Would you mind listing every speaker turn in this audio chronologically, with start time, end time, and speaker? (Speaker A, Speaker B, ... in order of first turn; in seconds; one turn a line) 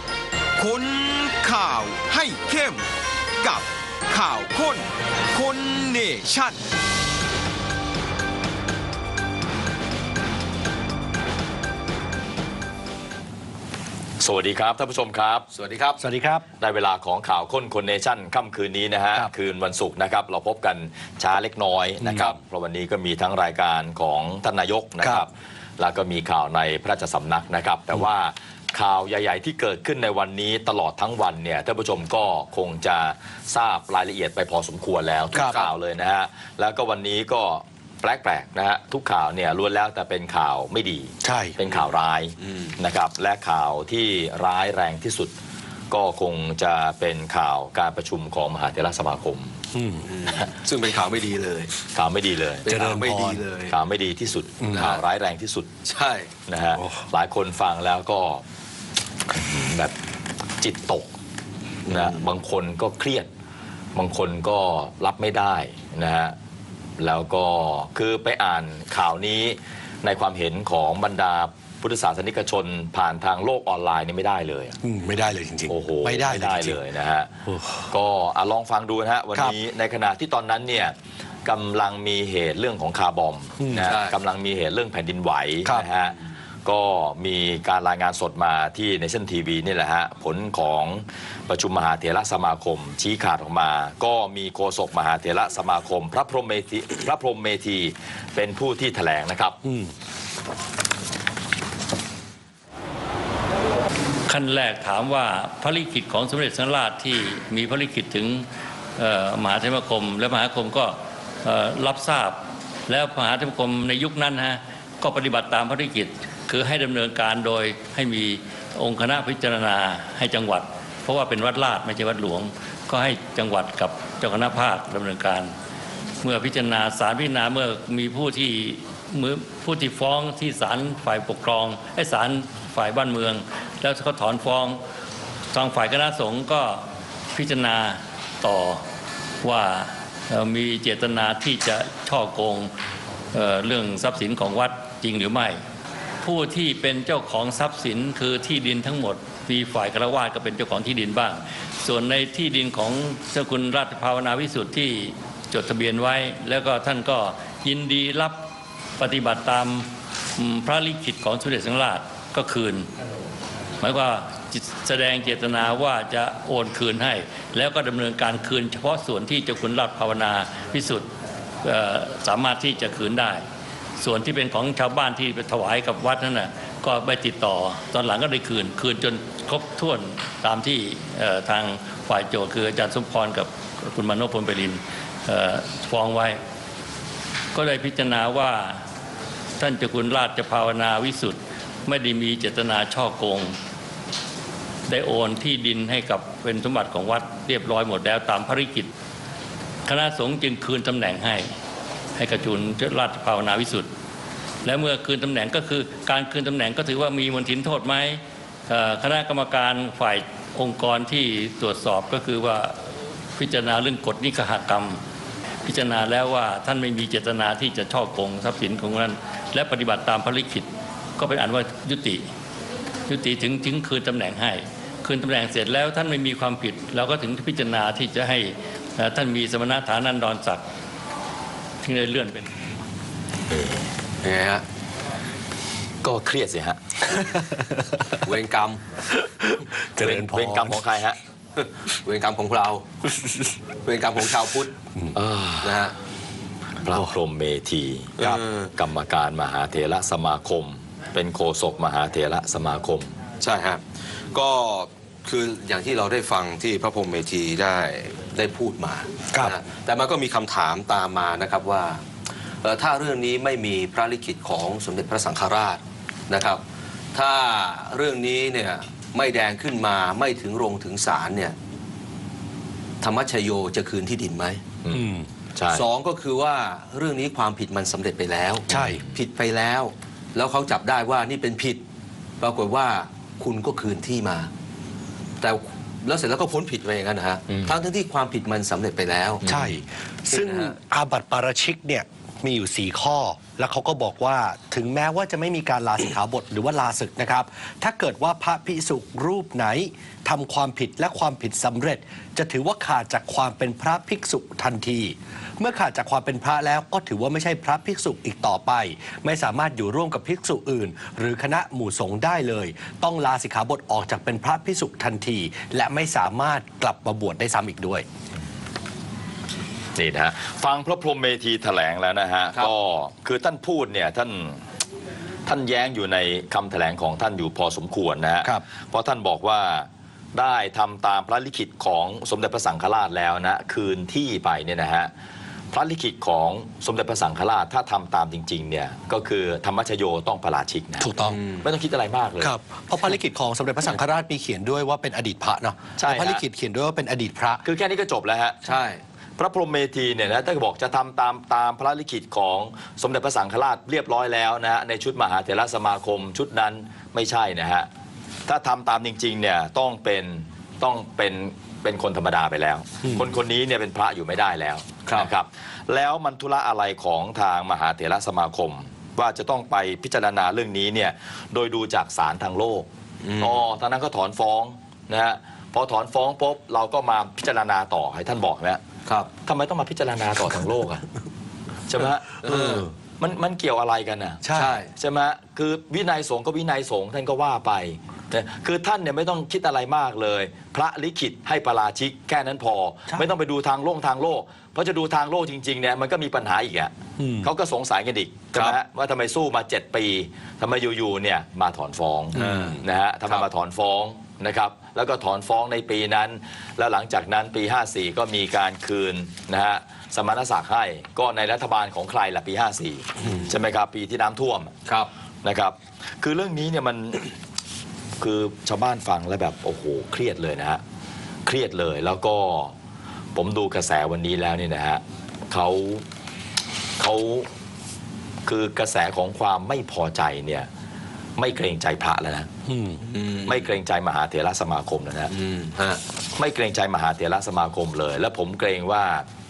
Speaker A: 0.6-2.9
Speaker A: 3.4-6.6
Speaker B: 14.2-15.5
Speaker C: 15.5-16.0
Speaker D: 16.0-16.4
Speaker B: 16.6-45.3
Speaker D: 22.0-22.3
Speaker C: 22.1-22.4
Speaker D: 35.3-35.6
Speaker D: 41.2-41.6
Speaker C: 42.4-42.8
Speaker B: 45.9-49.6
Speaker D: 49.7-50.1
Speaker C: 50.0-51.8
Speaker B: 51.9-52.8
Speaker C: 52.6-53.8
Speaker D: 52.7-53.4
Speaker B: 53.7-55.7
Speaker C: 54.7-55.0
Speaker C: 55.9-56.3
Speaker B: 56.5-58.4
Speaker D: 56.8-57.0
Speaker B: 59.3-60.0
Speaker B: 60.6-61.1
Speaker C: 61.9-62.3
Speaker B: 61.9-63.3
Speaker B: 64.0-66.4
Speaker B: 67.0-74.8
Speaker D: 74.8-76.8
Speaker B: 75.7-77.3
Speaker D: 77.5-77.8
Speaker B: 77.9-99.6
Speaker D: 83.6-83.9
Speaker C: 83.8-84.2
Speaker D: 99.6-99.9
Speaker E: 104.3-125.5
Speaker E: 126.2-134.8
Speaker E: 135.5-138.8
Speaker E: 139.4-142.7
Speaker E: 143.3-145.6
Speaker E: 146.2-158.4
Speaker E: 159.0-162.9
Speaker E: 163.8-171.1
Speaker E: 171.6-173.4
Speaker E: 174.0-186.4
Speaker E: 187.5-188.8
Speaker E: 189.6-193.6
Speaker E: 194.9-198.9
Speaker E: 199.9-201.5
Speaker E: 202.2-203.9
Speaker E: 204.6-212.8
Speaker E: 213.3-215.0
Speaker E: 215.6-222.2
Speaker E: 223.1-230.6
Speaker E: 231.8-232.5
Speaker B: 233.5-233.8
Speaker C: 234.2-234.6
Speaker B: 236.0-237.1
Speaker D: 237.4-238.0
Speaker C: 238.2-238.8
Speaker D: 239.4-240.8
Speaker B: 240.0-241.2
Speaker C: 241.6-242.9
Speaker C: 243.8-244.7
Speaker B: 245.2-245.8
Speaker C: 245.6-245.9
Speaker B: 246.8-253.2
Speaker C: 248.2-248.7
Speaker C: 253.4-262.1
Speaker C: 262.6-266.6
Speaker C: 267.1-271.6
Speaker C: 273.0-274.7
Speaker B: 274.8-275.9
Speaker D: 274.9-275.3
Speaker C: 275.7-281.8
Speaker D: 278.7-279.0
Speaker B: 278.7-279.2
Speaker C: 282.4-284.5
Speaker C: 285.4-289.4
Speaker B: 287.5-287.8
Speaker B: 289.4-289.8
Speaker D: 289.5-318.1
Speaker C: 290.3-290.8
Speaker B: 319.9-324.6
Speaker B: 325.4-335.1
Speaker B: 335.7-342.5
Speaker D: 341.0-341.4
Speaker C: 341.2-341.7
Speaker D: 342.4-347.6
Speaker B: 346.0-346.4
Speaker B: 347.6-348.7
Speaker C: 348.6-349.0
Speaker B: 349.4-357.9
Speaker B: 358.5-372.9
Speaker C: 365.0-365.3
Speaker C: 373.2-373.7
Speaker B: 373.4-378.8
Speaker C: 379.1-379.3
Speaker B: 379.4-381.1
Speaker B: 381.9-384.4
Speaker C: 382.4-382.9
Speaker D: 382.6-382.9
Speaker D: 384.4-384.7
Speaker C: 384.5-384.9
Speaker B: 385.0-414.8
Speaker D: 397.2-397.5
Speaker C: 402.4-403.4
Speaker C: 413.2-413.5
Speaker B: 415.4-417.3
Speaker B: 418.2-420.8
Speaker B: 421.4-422.7
Speaker B: 423.4-426.0
Speaker B: 427.0-427.5
Speaker B: 428.5-430.7
Speaker B: 431.4-432.5
Speaker D: 432.7-433.0
Speaker C: 433.0-433.8
Speaker B: 433.5-435.3
Speaker C: 435.3-436.0
Speaker B: 436.4-439.3